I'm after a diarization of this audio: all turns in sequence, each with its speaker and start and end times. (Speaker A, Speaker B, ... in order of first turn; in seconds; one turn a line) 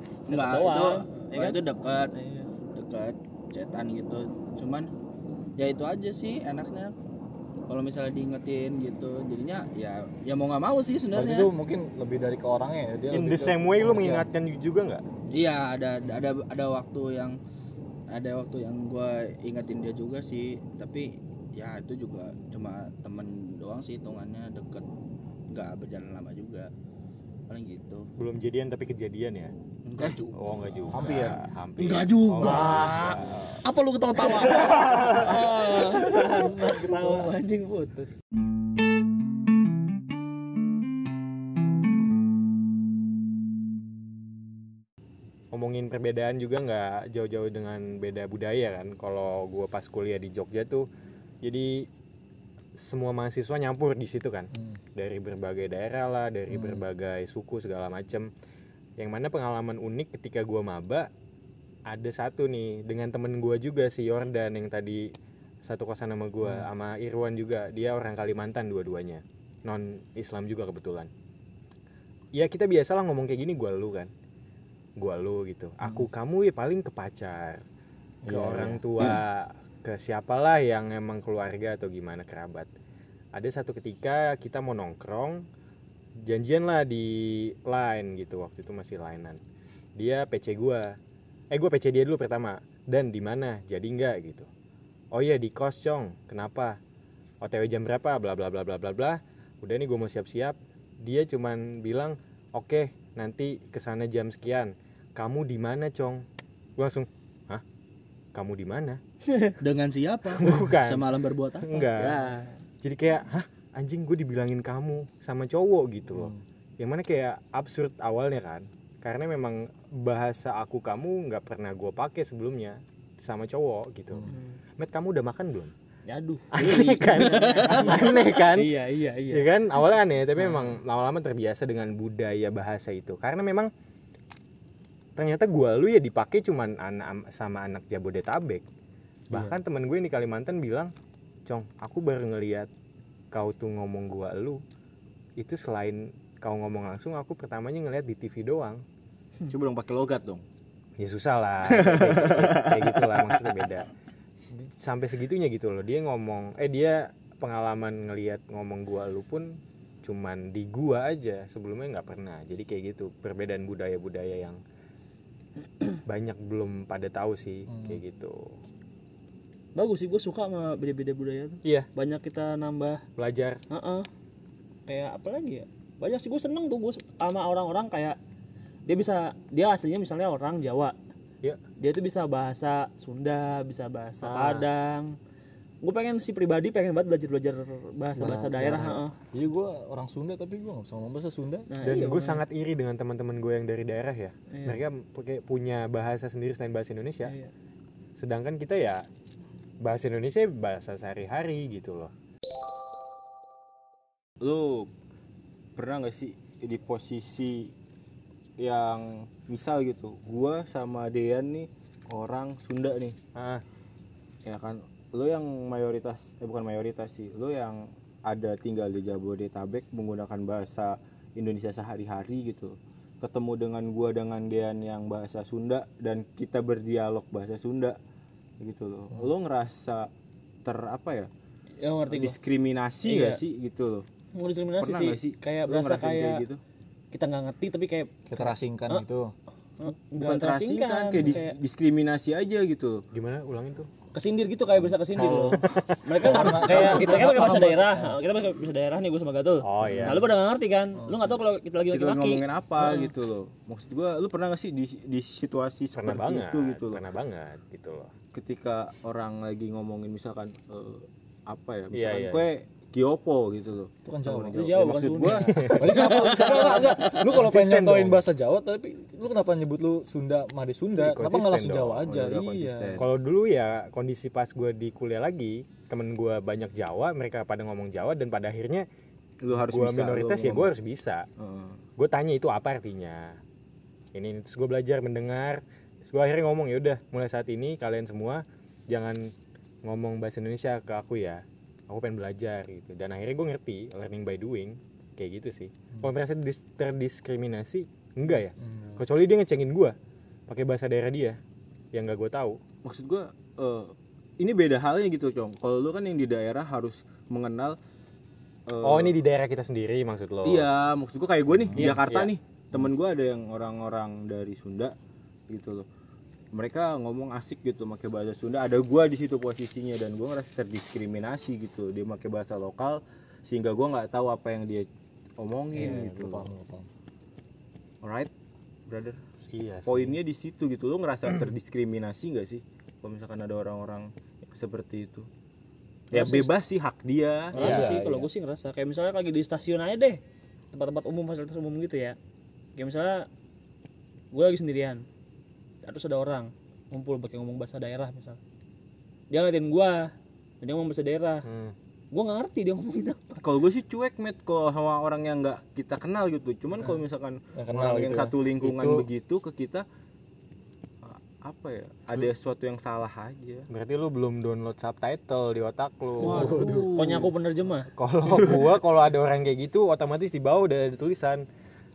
Speaker A: 0.3-2.1
Speaker B: 0.3-2.5
Speaker A: 2.7-4.9
Speaker A: 5.6-6.9
Speaker A: 7.7-11.5
Speaker C: 11.1-14.3
Speaker D: 13.1-15.0
Speaker A: 15.3-17.4
Speaker A: 18.1-24.9
Speaker A: 25.5-26.7
Speaker A: 27.5-28.1
Speaker D: 28.2-29.5
Speaker A: 29.8-37.3
Speaker D: 30.3-33.6
Speaker B: 32.4-33.1
Speaker B: 34.2-38.1
Speaker D: 45.5-50.9
Speaker D: 51.4-51.9
Speaker D: 52.8-58.3
Speaker C: 56.5-56.8
Speaker D: 59.0-61.1
Speaker D: 61.9-65.1
Speaker D: 65.6-71.1
Speaker C: 66.4-66.7
Speaker D: 72.3-74.1
Speaker D: 75.0-77.6
Speaker C: 75.8-76.1
Speaker C: 78.2-78.8
Speaker D: 78.3-82.7
Speaker D: 83.3-85.5
Speaker D: 86.3-89.4
Speaker D: 90.0-90.9
Speaker D: 91.5-94.5
Speaker D: 95.1-96.8
Speaker D: 97.4-106.2
Speaker D: 106.8-107.6
Speaker D: 108.3-109.0
Speaker A: 109.6-112.5
Speaker D: 110.3-112.2
Speaker D: 112.8-125.7
Speaker C: 116.1-116.4
Speaker B: 124.3-124.6
Speaker B: 126.1-129.5
Speaker D: 126.5-128.7
Speaker D: 129.3-133.7
Speaker B: 130.4-130.7
Speaker D: 135.2-138.6
Speaker D: 139.3-140.9
Speaker D: 141.5-142.7
Speaker D: 143.3-144.6
Speaker D: 145.4-148.8
Speaker E: 149.5-150.4
Speaker D: 151.0-153.9
Speaker E: 151.7-153.4
Speaker D: 154.5-164.6
Speaker D: 166.1-168.5
Speaker C: 167.7-168.0
Speaker B: 169.8-173.0
Speaker D: 173.2-173.6
Speaker B: 173.7-174.1
Speaker B: 174.9-178.2
Speaker B: 178.9-180.9
Speaker B: 181.8-185.2
Speaker D: 184.2-184.7
Speaker B: 185.8-189.1
Speaker C: 188.2-191.7
Speaker B: 191.7-192.4
Speaker D: 191.8-197.3
Speaker B: 194.5-194.8
Speaker B: 197.2-197.5
Speaker D: 198.2-199.0
Speaker D: 199.8-202.1
Speaker E: 204.4-204.9
Speaker E: 205.8-207.7
Speaker E: 208.6-213.2
Speaker D: 213.3-213.6
Speaker E: 214.4-228.0
Speaker E: 228.6-230.1
Speaker E: 230.6-231.3
Speaker B: 231.8-232.4
Speaker E: 232.1-234.1
Speaker B: 233.0-233.4
Speaker B: 234.3-236.4
Speaker E: 234.8-236.6
Speaker B: 237.1-239.0
Speaker C: 238.3-239.3
Speaker B: 239.8-241.6
Speaker E: 240.2-243.0
Speaker D: 243.1-243.9
Speaker B: 244.1-253.1
Speaker E: 245.1-245.8
Speaker D: 245.7-246.9
Speaker C: 246.2-248.2
Speaker D: 249.6-250.2
Speaker C: 249.8-250.1
Speaker E: 249.9-250.2
Speaker E: 251.9-257.0
Speaker D: 255.9-258.1
Speaker E: 258.3-266.9
Speaker D: 261.9-262.4
Speaker C: 264.0-264.7
Speaker B: 264.5-265.9
Speaker D: 265.6-266.1
Speaker C: 265.7-273.0
Speaker D: 267.1-268.2
Speaker D: 271.0-271.8
Speaker E: 271.2-273.1
Speaker D: 273.0-278.9
Speaker E: 279.4-280.7
Speaker D: 279.6-281.2
Speaker E: 281.4-281.8
Speaker D: 282.0-283.4
Speaker D: 284.1-289.3
Speaker D: 289.8-299.9
Speaker C: 298.6-299.0
Speaker D: 300.5-301.4
Speaker D: 301.9-302.6
Speaker E: 302.8-307.8
Speaker E: 308.7-309.2
Speaker D: 308.8-310.7
Speaker E: 310.4-314.9
Speaker C: 311.7-312.0
Speaker D: 311.7-312.3
Speaker E: 315.5-315.9
Speaker E: 316.5-326.5
Speaker C: 325.7-326.9
Speaker E: 328.0-328.3
Speaker E: 328.9-329.2
Speaker D: 329.4-330.2
Speaker E: 329.9-335.3
Speaker E: 336.1-338.0
Speaker B: 336.1-336.5
Speaker B: 337.5-340.2
Speaker D: 337.5-338.0
Speaker C: 337.6-338.3
Speaker B: 340.7-342.2
Speaker B: 342.8-343.3
Speaker B: 344.3-345.0
Speaker B: 345.8-348.4
Speaker B: 349.3-351.4
Speaker D: 351.4-351.7
Speaker B: 352.1-353.4
Speaker E: 353.4-359.9
Speaker C: 357.5-358.3
Speaker D: 358.6-359.1
Speaker E: 361.0-363.7
Speaker D: 363.7-366.9
Speaker C: 366.2-367.2
Speaker A: 366.2-367.2
Speaker B: 366.9-367.9
Speaker D: 367.9-371.4
Speaker E: 368.4-368.7